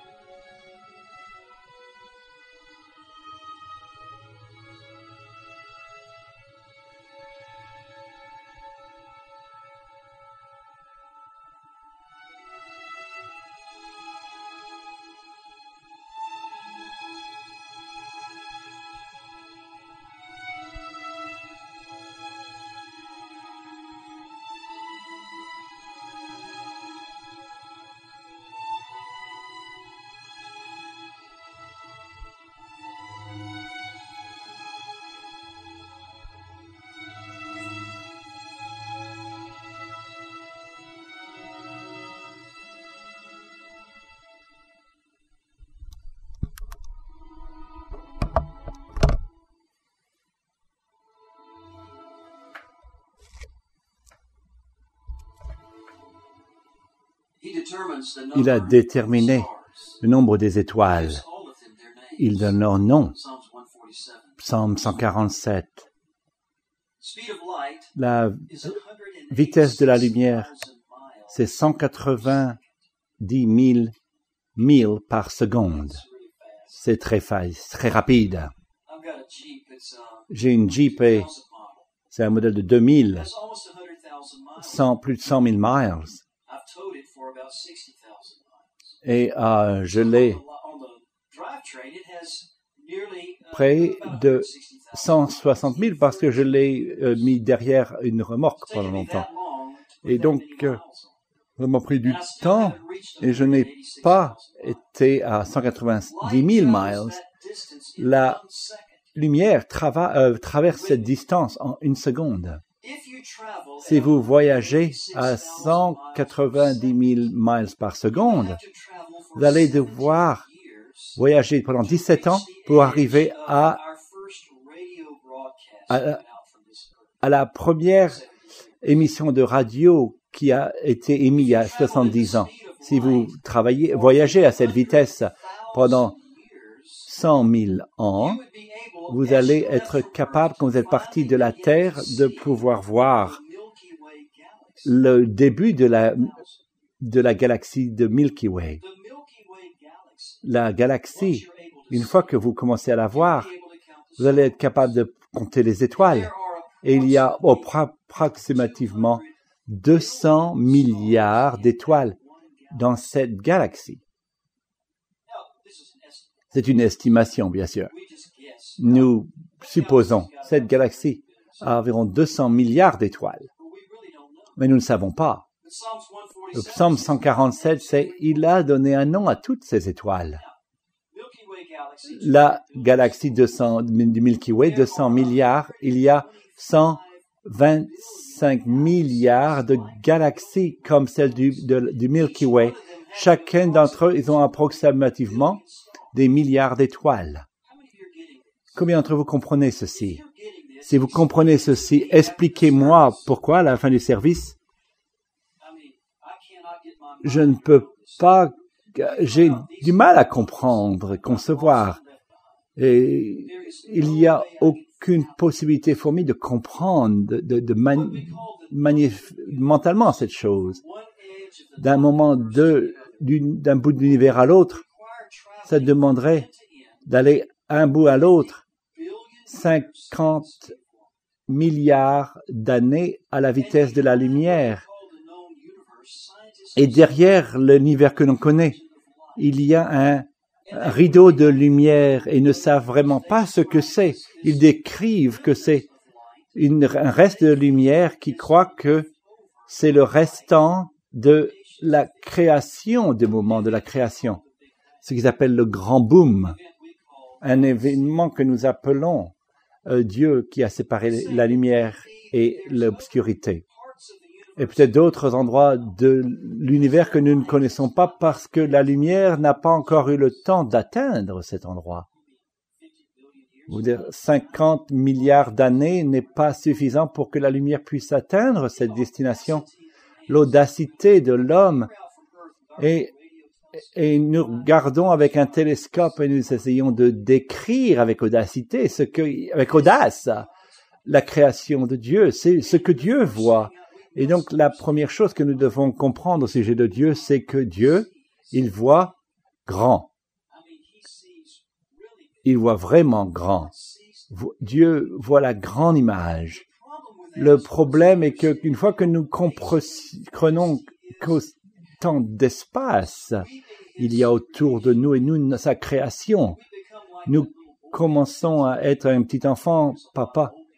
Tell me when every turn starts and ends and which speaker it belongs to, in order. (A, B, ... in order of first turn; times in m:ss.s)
0:57.4-0:59.7 A
0:58.3-0:59.5 B
1:00.0-1:01.2 B
1:00.9-1:02.3 A
1:02.2-1:03.2 B
1:03.1-1:04.4 A
1:04.4-1:05.8 B
1:07.0-1:07.9 A
1:08.0-1:08.8 B
1:08.5-1:11.4 A
1:09.3-1:10.5 B
1:11.3-1:12.6 B
1:13.2-1:13.9 B
1:14.6-1:16.0 B
1:15.7-1:16.8 A
1:16.7-1:18.5 B
1:18.9-1:21.9 A
1:20.3-1:21.3 B
1:22.1-1:23.3 B
1:23.1-1:24.8 A
1:24.6-1:26.2 B
1:26.5-1:28.7 A
1:29.0-1:30.4 B
1:29.9-1:36.4 A
1:33.5-1:39.3 B
1:38.6-1:41.2 A
1:40.0-1:40.8 B
1:41.6-1:47.2 B
1:42.0-1:44.6 A
1:46.1-1:48.9 A
1:48.0-1:48.4 B
1:49.2-1:52.6 B
1:52.8-1:56.9 A
1:53.8-1:58.6 B
1:58.1-2:01.2 A
1:59.4-2:00.4 B
2:01.2-2:03.8 B
2:01.8-2:07.0 A
2:05.9-2:06.2 B
2:07.2-2:08.2 B
2:08.8-2:16.2 B
2:11.4-2:13.3 A
2:13.9-2:17.0 A
2:17.1-2:18.4 B
2:18.4-2:22.6 A
2:19.1-2:23.4 B
2:23.2-2:24.9 A
2:24.8-2:26.4 B
2:26.2-2:26.5 A
2:27.0-2:28.8 B
2:28.8-2:30.4 A
2:30.4-2:33.5 B
2:31.2-2:32.2 A
2:33.1-2:34.5 A
2:34.2-2:42.2 B
2:36.0-2:37.7 A
2:38.5-2:39.3 A
2:39.9-2:42.2 A
2:42.7-2:44.0 B
2:45.3-2:46.5 A
2:46.5-2:47.9 B
2:47.9-2:51.2 A
2:48.8-2:53.5 B
2:53.6-2:54.6 A
2:54.6-2:55.5 B
2:55.6-2:58.4 A
2:56.5-3:00.4 B
3:01.1-3:03.2 A
3:02.1-3:15.6 B
3:04.6-3:07.0 A
3:07.9-3:09.9 A
3:12.1-3:16.0 A
3:16.1-3:17.5 B
3:17.6-3:18.7 A
3:18.8-3:20.2 B
3:20.0-3:23.2 A
3:20.8-3:24.6 B
3:25.6-3:28.2 A
3:27.2-3:32.0 B
3:29.0-3:32.3 A
3:32.8-3:40.8 B
3:33.4-3:35.3 A
3:38.0-3:39.3 A
3:40.8-3:43.0 A
3:41.8-3:44.8 B
3:44.8-3:46.5 A
3:45.7-3:46.5 B
3:47.1-3:48.6 B
3:48.9-3:51.1 A
3:49.5-3:50.8 B
3:51.5-3:54.8 B
3:53.6-3:57.2 A
3:56.8-3:58.8 B
3:58.7-3:59.4 A
3:59.4-4:05.9 B
4:00.7-4:06.0 A
4:06.6-4:09.1 B
4:07.2-4:09.1 A
4:09.7-4:10.5 A
4:09.7-4:14.4 B
4:11.7-4:12.2 A
4:13.4-4:14.5 A
4:15.0-4:16.6 B
4:16.6-4:17.6 A
4:17.4-4:19.3 B
4:19.8-4:23.6 B
4:21.1-4:24.9 A
4:24.6-4:32.1 B
4:26.9-4:28.1 A
4:32.8-4:34.1 A
4:33.7-4:39.7 B
4:38.8-4:39.8 A
4:40.3-4:41.9 B
4:41.8-4:43.6 A
4:42.8-4:43.1 B
4:43.9-4:50.5 B
4:51.1-4:59.2 B
4:52.6-4:54.8 A
4:59.7-5:00.1 B
5:00.5-5:02.5 A
5:02.4-5:03.7 B
5:03.7-5:04.2 A
5:04.3-5:06.6 B
5:06.7-5:11.2 A
5:07.4-5:16.6 B
5:13.5-5:14.9 A
5:16.6-5:18.5 A
5:17.3-5:20.5 B
5:19.9-5:20.6 A